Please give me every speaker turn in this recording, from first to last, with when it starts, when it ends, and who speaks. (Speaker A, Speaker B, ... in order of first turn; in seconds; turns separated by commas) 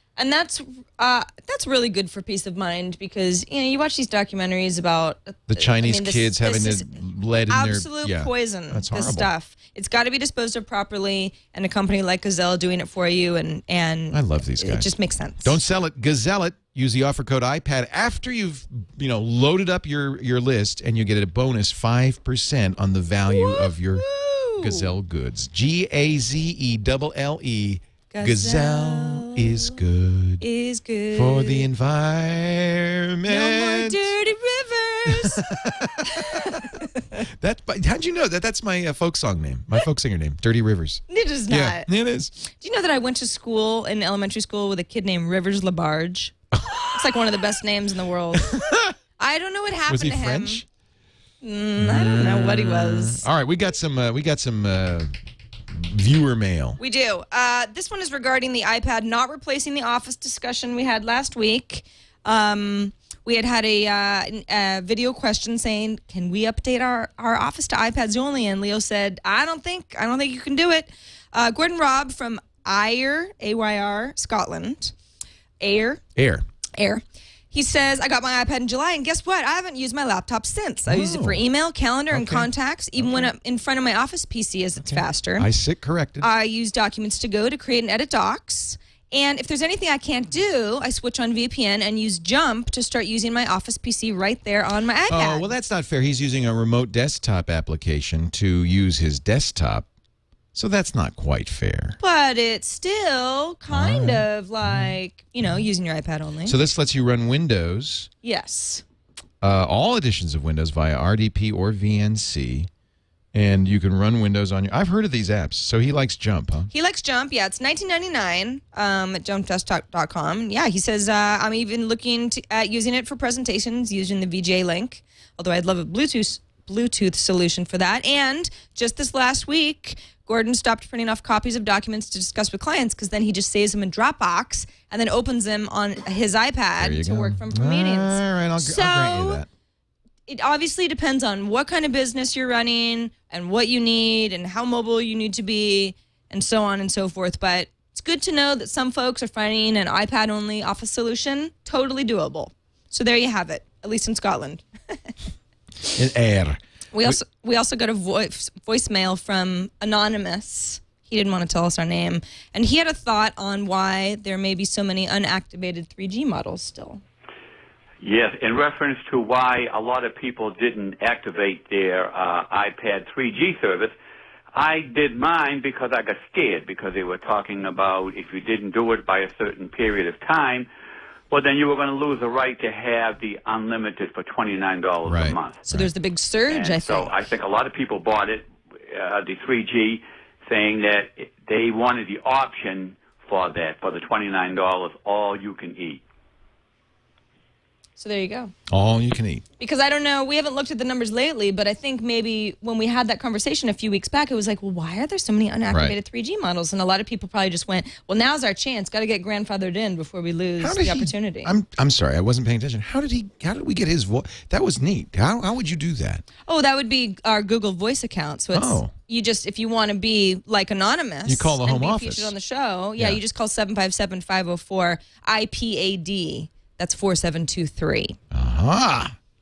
Speaker A: 0.2-6.9, Speaker B: 5.5-9.3, Speaker A: 7.5-15.6, Speaker B: 14.1-14.9, Speaker B: 15.4-24.1, Speaker A: 23.3-24.9, Speaker B: 24.6-30.4, Speaker A: 28.1-29.6, Speaker A: 30.4-31.7, Speaker B: 31.1-34.1, Speaker A: 33.3-35.4, Speaker B: 35.1-42.4, Speaker A: 36.0-37.1, Speaker A: 41.1-41.9, Speaker A: 42.5-46.3, Speaker B: 46.5-47.2, Speaker A: 46.9-48.6, Speaker B: 48.3-49.0, Speaker A: 49.2-50.6, Speaker B: 49.9-50.7, Speaker A: 51.4-53.2, Speaker B: 51.8-55.1, Speaker B: 55.7-56.8, Speaker A: 56.8-74.9, Speaker A: 75.6-76.0, Speaker B: 76.2-76.5, Speaker A: 76.8-85.5, Speaker B: 80.9-81.4, Speaker B: 82.1-83.3, Speaker B: 84.8-86.3, Speaker A: 86.2-95.5, Speaker B: 95.1-99.9, Speaker B: 100.5-102.0, Speaker A: 102.0-106.5, Speaker B: 103.7-104.9, Speaker B: 106.5-108.1, Speaker A: 108.2-108.8, Speaker B: 109.4-112.7, Speaker B: 113.3-116.7, Speaker A: 116.7-139.4, Speaker B: 136.8-139.5, Speaker A: 140.3-155.1, Speaker B: 155.9-157.2, Speaker A: 156.9-167.0, Speaker C: 168.0-173.9, Speaker C: 174.5-180.7, Speaker C: 181.3-185.6, Speaker B: 185.1-185.9, Speaker A: 185.7-187.2, Speaker C: 186.5-196.0, Speaker A: 198.0-198.5, Speaker B: 198.7-199.4, Speaker A: 199.6-211.5, Speaker B: 205.7-205.9, Speaker B: 210.6-216.2, Speaker A: 216.5-228.2, Speaker B: 218.5-218.9, Speaker B: 221.3-222.3, Speaker B: 228.3-229.2